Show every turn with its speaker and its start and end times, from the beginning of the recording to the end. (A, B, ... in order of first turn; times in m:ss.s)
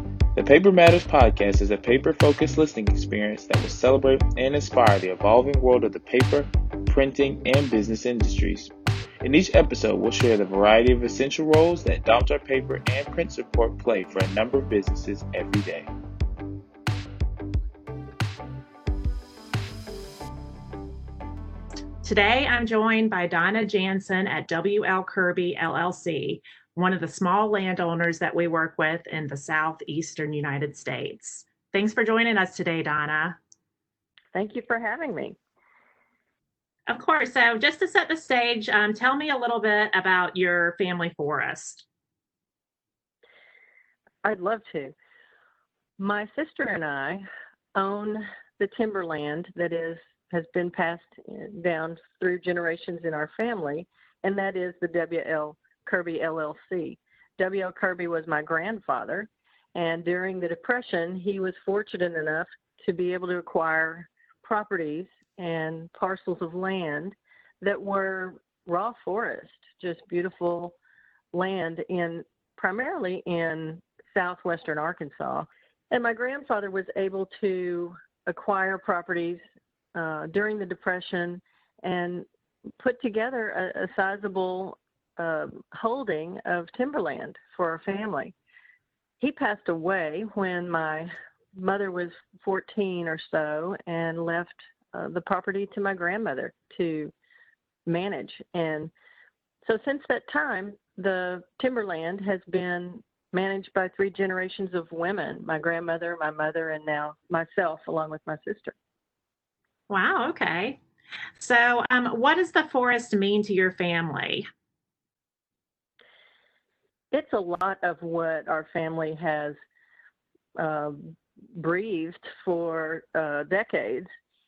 0:00.4-0:08.7 A
0:09.2-0:15.9 A
0:22.0-0:33.4 B
0:34.3-0:35.4 C
0:36.9-0:41.8 B
0:44.2-0:45.0 C
0:46.0-1:10.8 C
1:11.3-1:19.4 C
1:20.0-1:22.3 C
1:22.8-1:28.3 C
1:29.2-1:37.1 C
1:37.9-1:38.9 C
1:39.6-1:48.8 C
1:49.9-1:50.8 B
1:51.4-1:54.5 B
1:57.1-1:59.6 C
2:00.6-2:04.1 C